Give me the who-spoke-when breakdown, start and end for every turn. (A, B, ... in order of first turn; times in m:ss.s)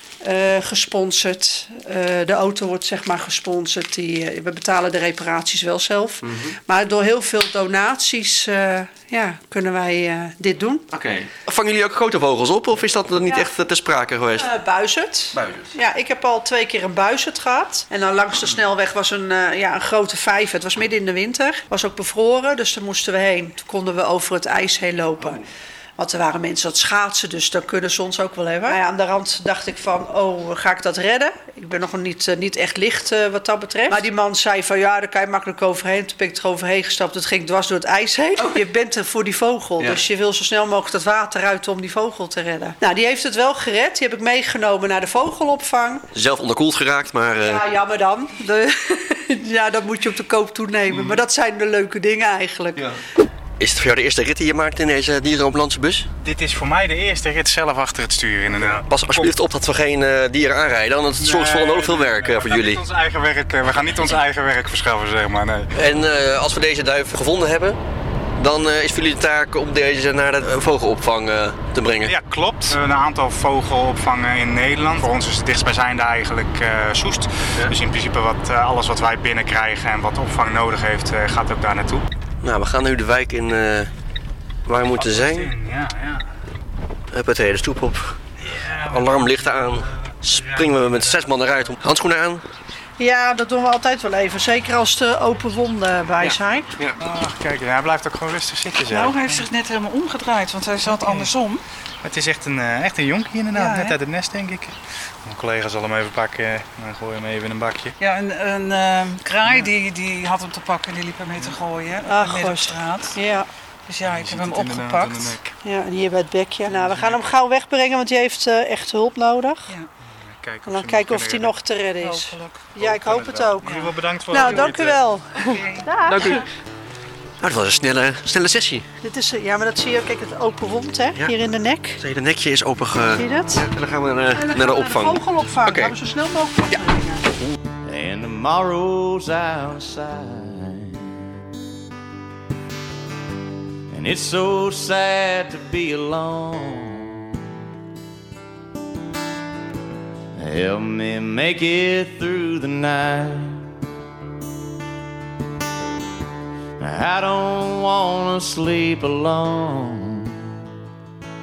0:00.2-0:10.9 A
0:06.2-0:06.6 B
0:10.9-0:14.5 B
0:14.4-0:25.4 A
0:15.3-0:15.7 B
0:26.0-0:46.1 A
0:46.1-0:47.6 B
0:47.4-0:52.8 A
0:53.6-0:56.1 B
0:56.2-0:59.3 C
0:58.6-1:02.8 B
1:01.2-1:05.7 C
1:05.7-1:07.8 B
1:08.4-1:12.2 B
1:12.0-1:22.0 C
1:22.4-1:23.9 B
1:24.7-1:25.5 B
1:24.9-1:26.3 C
1:27.1-1:28.2 B
1:28.4-1:31.8 C
1:28.9-1:32.4 B
1:33.0-1:36.7 A
1:36.2-1:37.0 B
1:37.0-1:39.5 C
1:39.0-1:41.6 D
1:40.8-1:41.3 C
1:42.0-1:48.0 C
1:43.6-1:43.9 D
1:48.0-1:53.1 D
1:49.4-1:49.8 C
1:52.0-1:53.5 A
1:53.9-1:55.3 D
1:54.0-1:55.5 C
1:55.6-1:59.8 A
1:56.7-1:57.2 C
2:00.2-2:01.5 C
2:00.7-2:03.8 A
2:02.0-2:02.6 D
2:02.8-2:05.1 C
2:04.3-2:06.4 A
2:06.1-2:06.4 B
2:07.4-2:08.8 B
2:09.0-2:12.0 A
2:12.0-2:15.9 B
2:13.1-2:13.6 A
2:14.3-2:17.3 A
2:17.8-2:21.2 E
2:23.9-2:27.5 E
2:30.4-2:33.7 E
2:36.8-2:40.6 E